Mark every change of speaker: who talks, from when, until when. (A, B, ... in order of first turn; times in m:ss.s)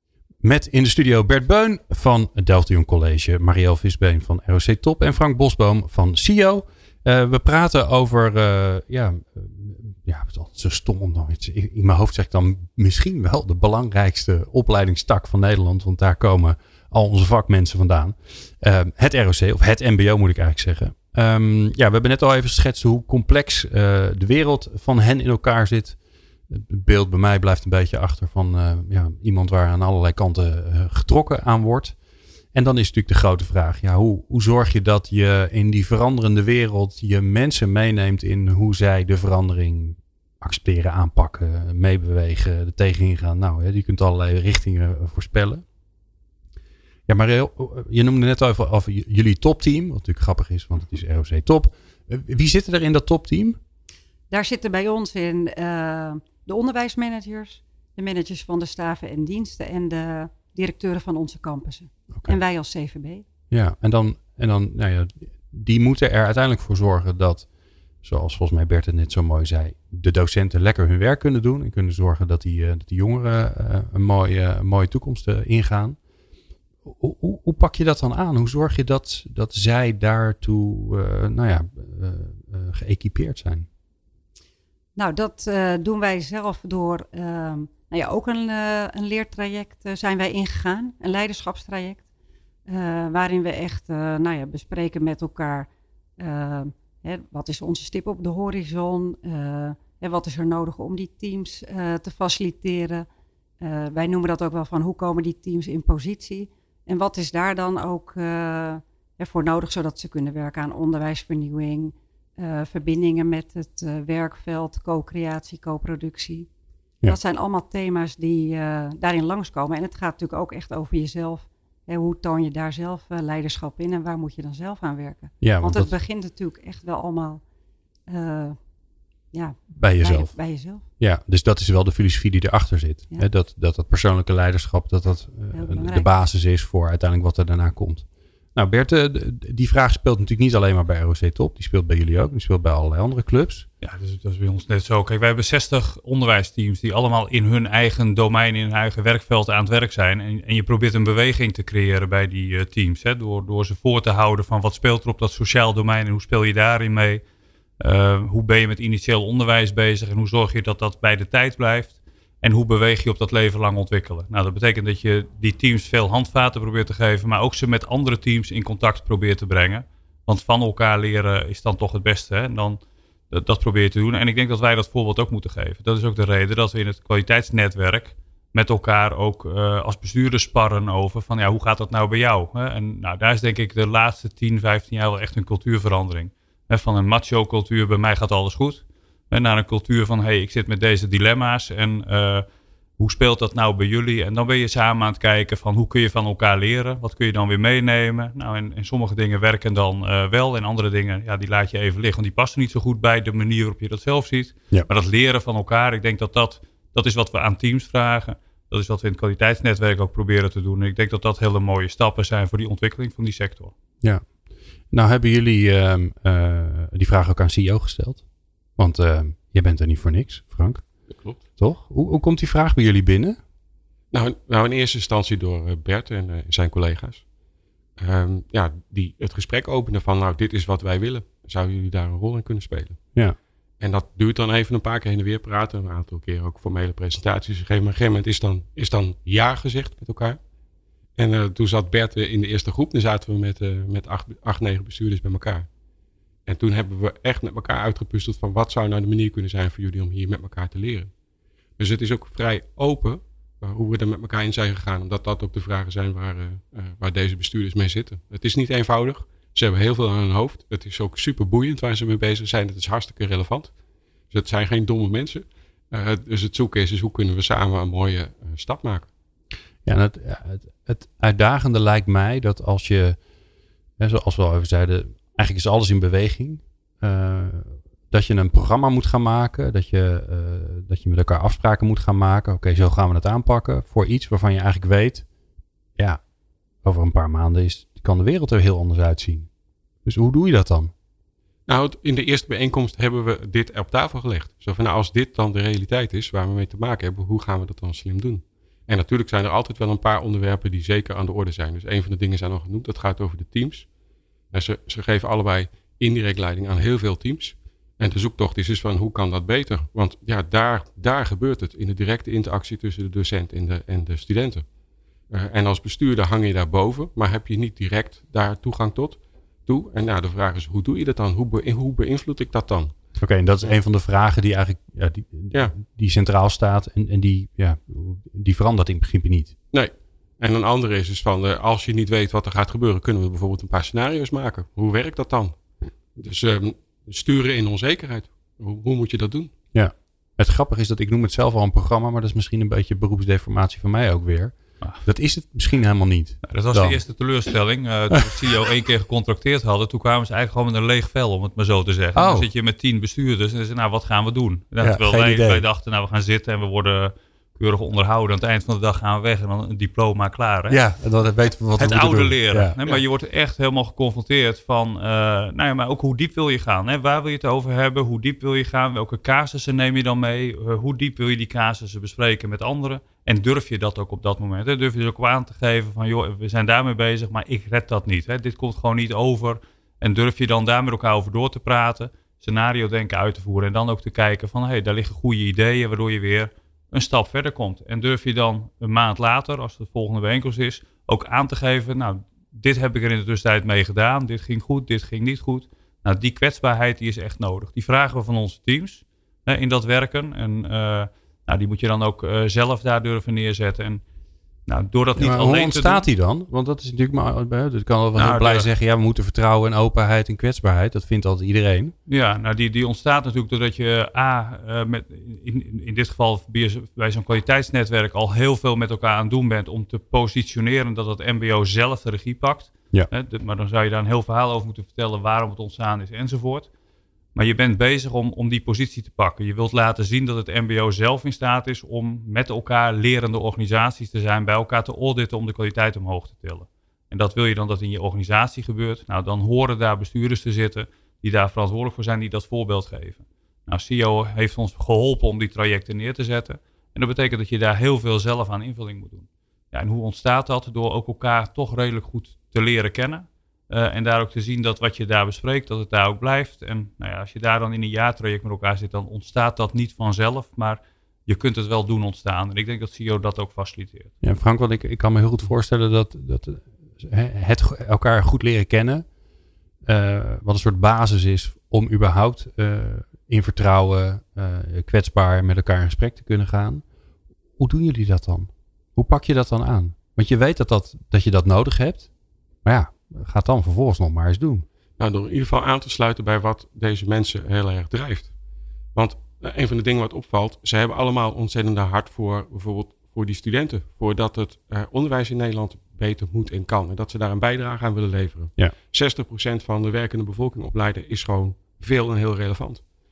0:00.4-0:26.0 A
0:26.5-0:32.0 A
0:32.5-0:45.6 A
0:47.1-0:53.6 A
0:54.3-1:03.2 B
1:03.5-1:07.5 A
1:08.0-1:16.0 A
1:16.8-1:23.7 A
1:25.0-1:32.0 B
1:32.7-1:43.1 B
1:43.6-1:56.5 B
1:57.1-2:07.4 B
2:05.4-2:05.9 A
2:08.1-2:08.6 B
2:09.3-2:10.8 B
2:09.8-2:23.7 A
2:15.5-2:16.1 B
2:23.8-2:37.2 C
2:37.8-2:52.8 C
2:53.3-3:12.5 C
3:13.0-3:33.7 C
3:34.9-3:43.4 A
3:41.1-3:41.4 D
3:44.1-3:47.3 D
3:48.0-3:53.1 D
3:53.8-4:00.4 D
4:01.2-4:05.7 D
4:06.5-4:11.1 D
4:11.8-4:23.8 D
4:24.3-4:29.1 D
4:29.8-4:33.2 A
4:34.0-4:45.3 A
4:46.0-4:46.2 A
4:46.8-4:49.5 A
4:50.0-4:50.9 A
4:51.7-5:03.9 D
5:04.5-5:14.7 D
5:15.3-5:22.9 D
5:23.2-5:29.6 A
5:29.7-5:39.5 D
5:39.7-5:47.0 A
5:46.4-6:00.8 C
5:52.2-5:52.5 A
5:54.8-5:55.6 A
6:00.7-6:03.0 A
6:01.8-6:44.0 C
6:44.7-6:46.0 C
6:45.2-6:51.9 A
6:48.2-6:48.7 C
6:52.1-7:06.7 C
7:07.4-7:44.1 C
7:44.2-7:49.1 A
7:49.9-7:56.8 A
7:57.6-8:02.1 A
8:02.6-8:04.7 A
8:05.0-8:08.3 D
8:08.9-8:22.9 D